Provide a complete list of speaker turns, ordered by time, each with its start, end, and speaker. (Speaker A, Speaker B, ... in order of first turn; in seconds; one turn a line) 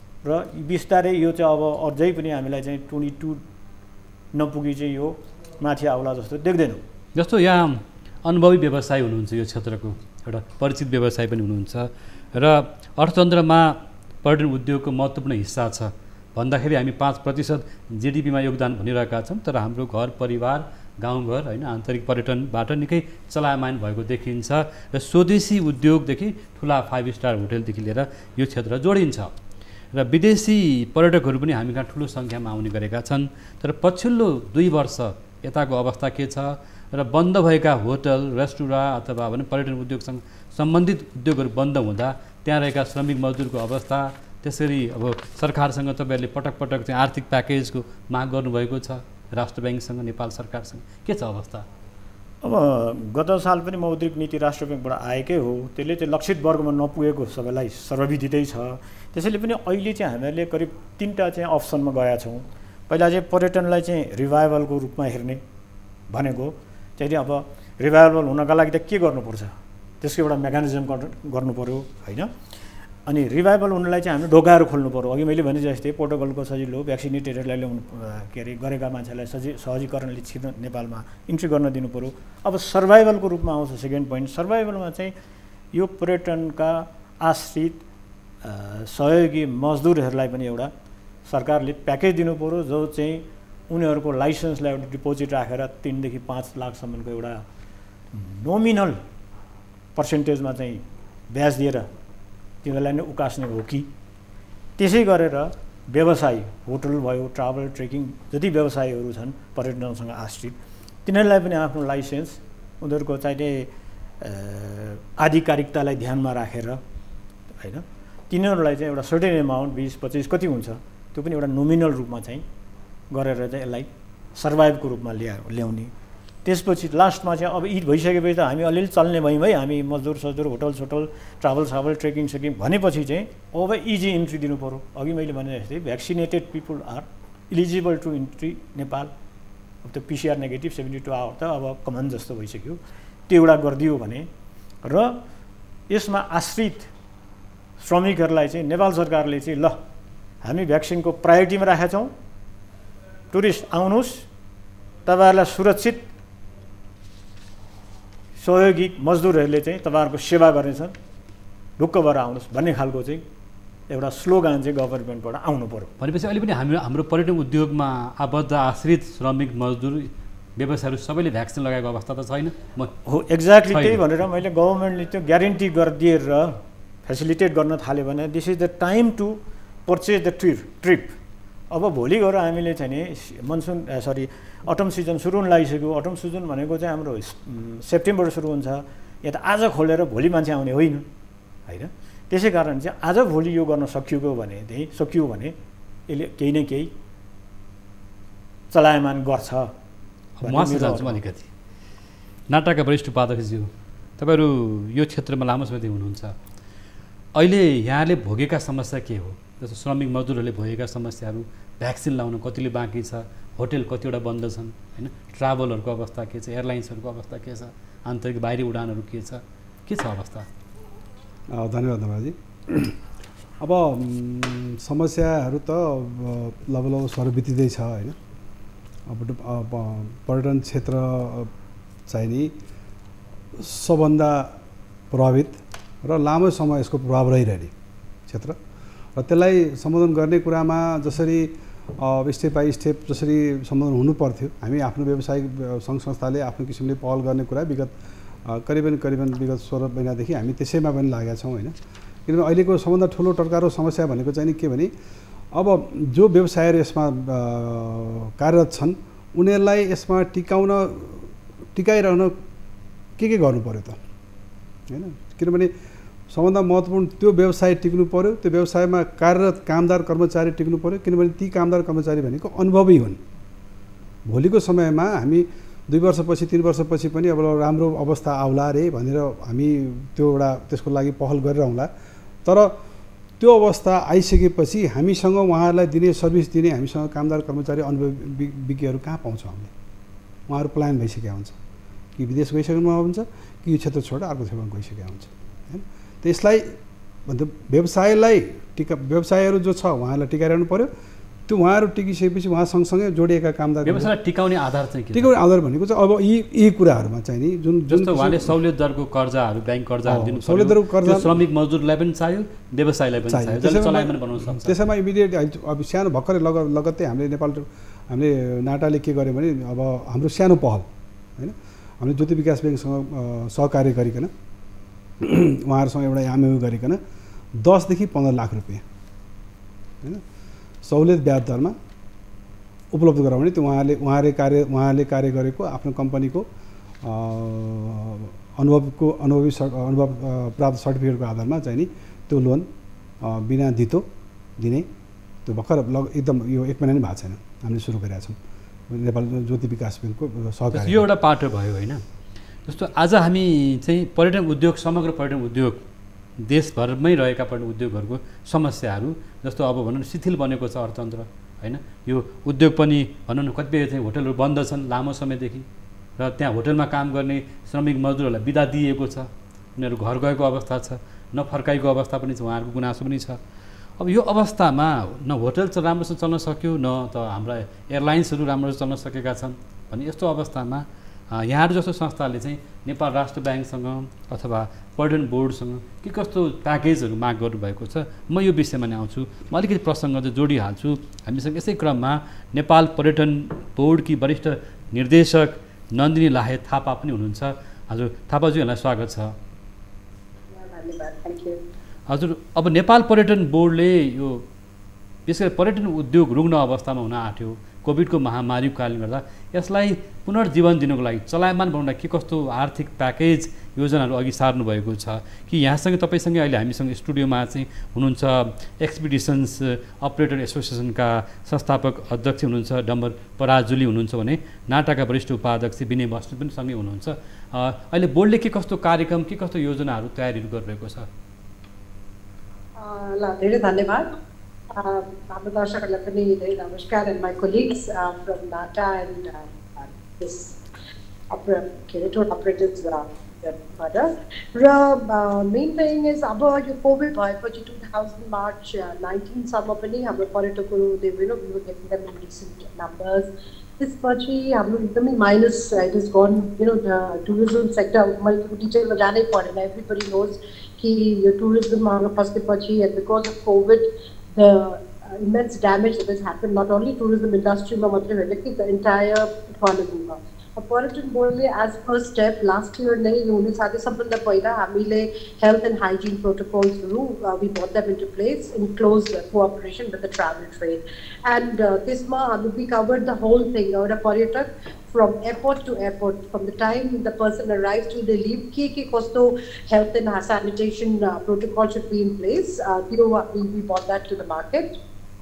Speaker A: 0.2-3.4
Speaker A: 4.3-6.8
Speaker B: 7.1-29.3
Speaker B: 29.9-51.6
Speaker A: 52.4-65.4
Speaker A: 66.1-72.3
Speaker A: 73.0-85.1
Speaker A: 85.7-87.8
Speaker A: 88.4-90.7
Speaker A: 91.2-97.4
Speaker A: 98.1-99.0
Speaker A: 99.9-101.9
Speaker A: 102.6-103.9
Speaker A: 104.8-116.8
Speaker A: 117.5-122.4
Speaker A: 123.1-125.9
Speaker A: 126.4-139.1
Speaker A: 139.8-144.3
Speaker A: 144.8-145.2
Speaker A: 145.9-146.9
Speaker A: 147.8-149.8
Speaker A: 150.4-152.1
Speaker A: 153.3-154.3
Speaker A: 155.1-156.1
Speaker A: 158.4-160.9
Speaker A: 161.8-163.2
Speaker A: 163.9-165.9
Speaker B: 166.0-173.0
Speaker A: 173.1-181.2
Speaker B: 173.7-174.1
Speaker A: 181.7-191.1
Speaker A: 191.7-195.5
Speaker A: 196.1-196.9
Speaker A: 198.7-199.7
Speaker B: 200.4-201.5
Speaker A: 200.4-201.2
Speaker B: 202.5-206.3
Speaker B: 207.3-220.5
Speaker C: 221.5-222.9
Speaker C: 223.6-228.2
Speaker C: 229.1-231.5
Speaker C: 232.1-232.5
Speaker C: 233.6-234.5
Speaker C: 235.1-237.7
Speaker C: 238.3-238.6
Speaker C: 239.2-247.9
Speaker C: 248.4-251.7
Speaker C: 252.2-254.9
Speaker C: 255.5-262.3
Speaker C: 263.2-264.0
Speaker C: 264.9-265.7
Speaker C: 266.3-273.2
Speaker C: 274.3-281.9
Speaker C: 282.4-282.7
Speaker C: 283.4-289.7
Speaker C: 290.5-291.6
Speaker C: 292.2-296.8
Speaker C: 297.3-300.9
Speaker C: 301.5-304.1
Speaker B: 303.8-305.3
Speaker C: 305.1-308.6
Speaker B: 307.9-314.8
Speaker C: 310.1-311.3
Speaker C: 313.3-324.3
Speaker C: 325.2-327.0
Speaker C: 327.6-328.8
Speaker C: 330.8-331.8
Speaker C: 332.9-336.4
Speaker C: 337.0-342.7
Speaker C: 343.2-344.0
Speaker C: 344.6-344.9
Speaker C: 345.4-348.4
Speaker C: 348.9-351.1
Speaker B: 350.7-352.0
Speaker B: 352.6-355.8
Speaker B: 356.4-365.6
Speaker B: 366.2-373.4
Speaker B: 374.0-399.3
Speaker D: 400.5-401.6
Speaker B: 402.1-404.4
Speaker B: 405.3-431.1
Speaker D: 432.8-434.1
Speaker D: 434.7-440.6
Speaker D: 441.3-494.8